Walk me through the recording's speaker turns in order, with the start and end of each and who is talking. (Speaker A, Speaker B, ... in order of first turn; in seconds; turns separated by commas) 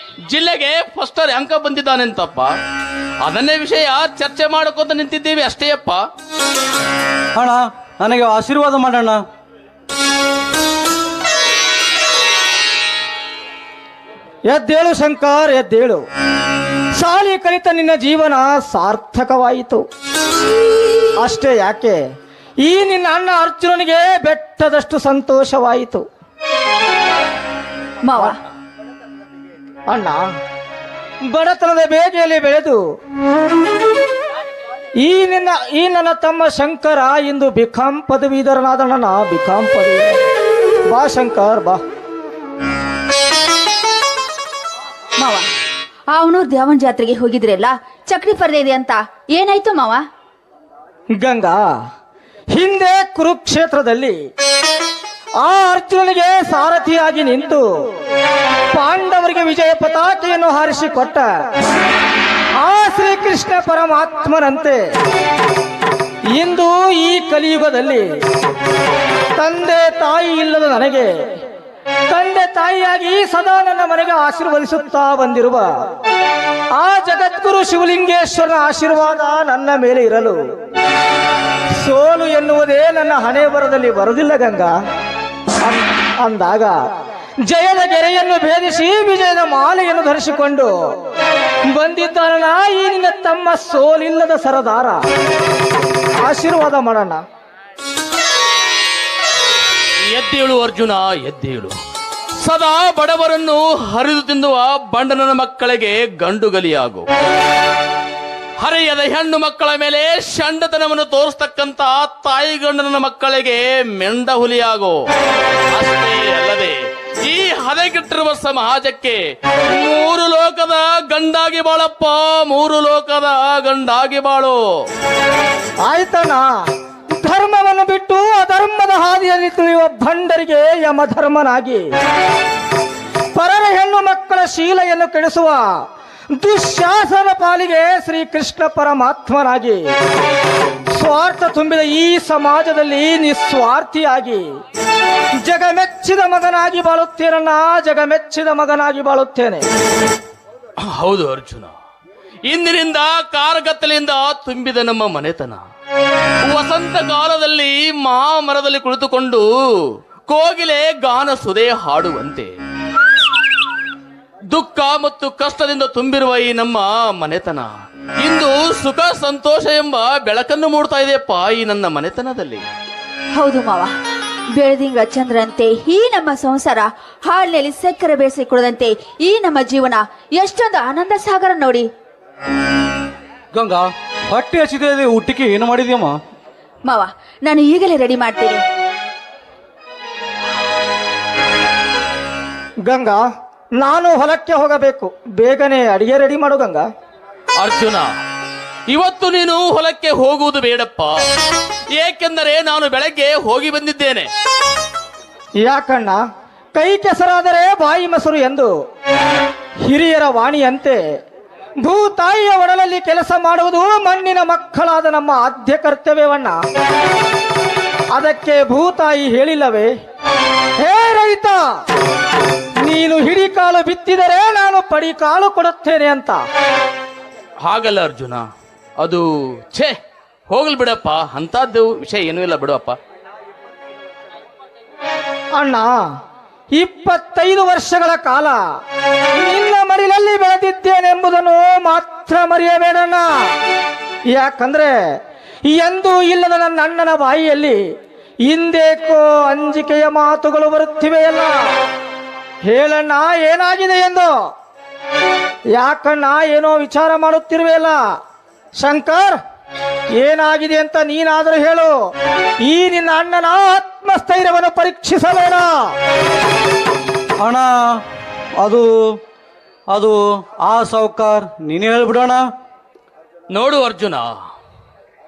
Speaker A: 0.3-2.5, Speaker A: 3.2-6.0, Speaker B: 7.3-9.2, Speaker C: 14.5-16.0, Speaker C: 16.9-19.8, Speaker C: 21.2-22.0, Speaker C: 22.6-26.1, Speaker D: 28.0-28.4, Speaker C: 29.9-30.2, Speaker C: 31.3-32.8, Speaker C: 35.0-40.3, Speaker C: 40.9-41.8, Speaker D: 45.2-45.5, Speaker D: 46.1-50.0, Speaker C: 51.2-51.7, Speaker C: 52.5-54.2, Speaker C: 55.4-57.6, Speaker C: 58.7-61.3, Speaker C: 62.6-64.8, Speaker C: 66.3-68.2, Speaker C: 69.4-71.4, Speaker C: 72.1-75.7, Speaker C: 76.8-80.4, Speaker C: 81.8-84.7, Speaker C: 85.6-86.8, Speaker C: 87.5-90.7, Speaker C: 91.7-95.0, Speaker C: 96.2-97.2, Speaker A: 100.1-101.8, Speaker A: 102.4-107.1, Speaker A: 108.6-115.0, Speaker A: 115.7-124.6, Speaker C: 125.8-126.5, Speaker C: 127.1-131.9, Speaker C: 133.3-135.7, Speaker C: 136.4-139.9, Speaker C: 140.9-144.6, Speaker C: 145.4-149.7, Speaker A: 150.8-151.7, Speaker A: 152.5-155.6, Speaker A: 156.5-162.5, Speaker A: 164.5-167.7, Speaker A: 168.2-172.6, Speaker D: 173.3-173.9, Speaker D: 174.5-181.8, Speaker B: 183.5-186.2, Speaker D: 186.9-188.6, Speaker C: 192.9-193.2, Speaker C: 193.8-196.9, Speaker A: 197.6-198.1, Speaker A: 198.9-201.2, Speaker A: 201.9-204.3, Speaker C: 205.6-206.2, Speaker C: 206.7-208.7, Speaker C: 209.8-211.0, Speaker C: 211.8-216.6, Speaker C: 218.1-219.9, Speaker C: 220.8-221.6, Speaker C: 222.8-226.4, Speaker A: 227.6-228.4, Speaker A: 229.0-229.9, Speaker A: 230.5-232.9, Speaker C: 235.6-235.9, Speaker C: 236.7-238.6, Speaker C: 239.3-243.3, Speaker C: 244.3-244.9, Speaker C: 245.7-247.8, Speaker C: 248.4-251.6, Speaker C: 252.7-254.3, Speaker C: 255.7-258.0, Speaker C: 258.8-259.4, Speaker C: 260.2-261.9, Speaker C: 262.6-265.8, Speaker B: 267.4-268.0, Speaker B: 268.6-269.2, Speaker B: 269.9-272.4, Speaker A: 273.5-274.3